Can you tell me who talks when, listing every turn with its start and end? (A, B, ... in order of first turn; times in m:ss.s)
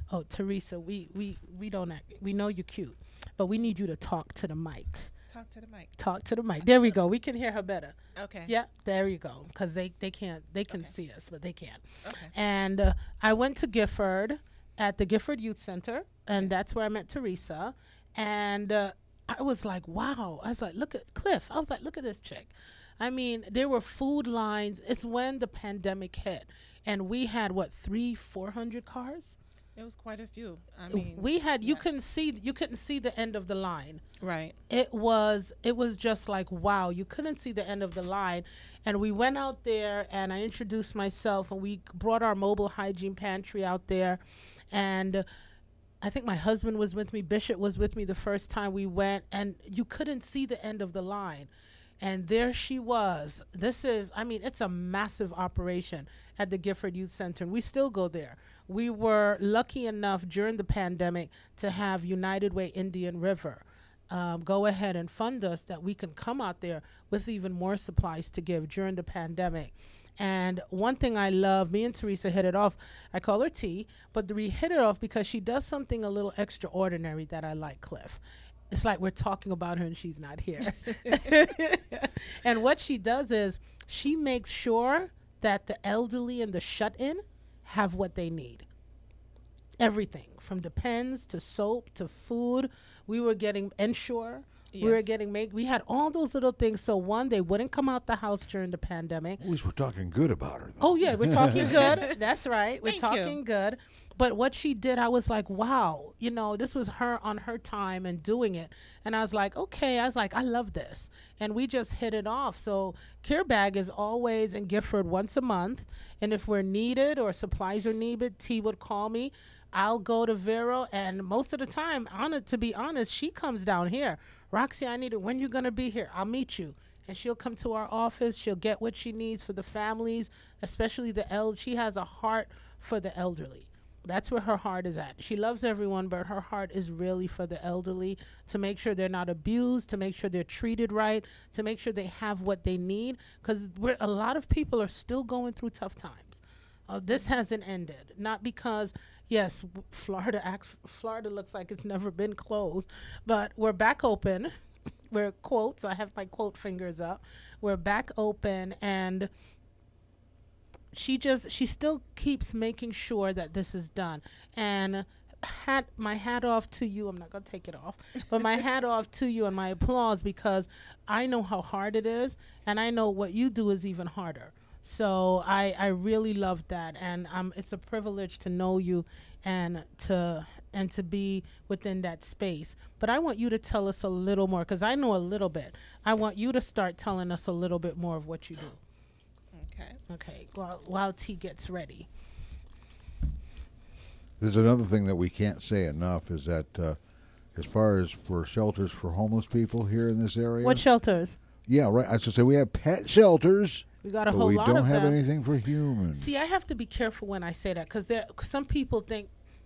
0:00.1-0:05.1 A
0:05.3-0:06.0 B
0:06.0-0:29.4 A
0:06.6-0:07.0 B
0:08.2-0:08.5 B
0:12.0-0:12.3 B
0:29.8-0:31.9 B
0:30.9-0:34.0 A
0:34.2-0:34.6 B
0:34.7-0:44.2 A
0:44.7-0:45.2 A
0:46.0-0:51.5 A
0:52.0-1:18.2 A
1:18.7-1:28.6 A
1:29.8-1:39.4 A
1:34.7-1:35.1 B
1:39.4-1:41.9 C
1:40.8-2:34.5 A
1:41.6-1:42.0 B
1:42.8-1:43.4 B
2:35.1-2:39.3 A
2:40.9-3:08.8 A
3:09.5-3:10.0 B
3:10.1-3:12.1 A
3:14.4-3:17.0 C
3:17.5-3:20.8 C
3:20.6-3:21.4 A
3:21.6-3:26.3 C
3:24.0-3:25.2 A
3:26.1-3:29.3 A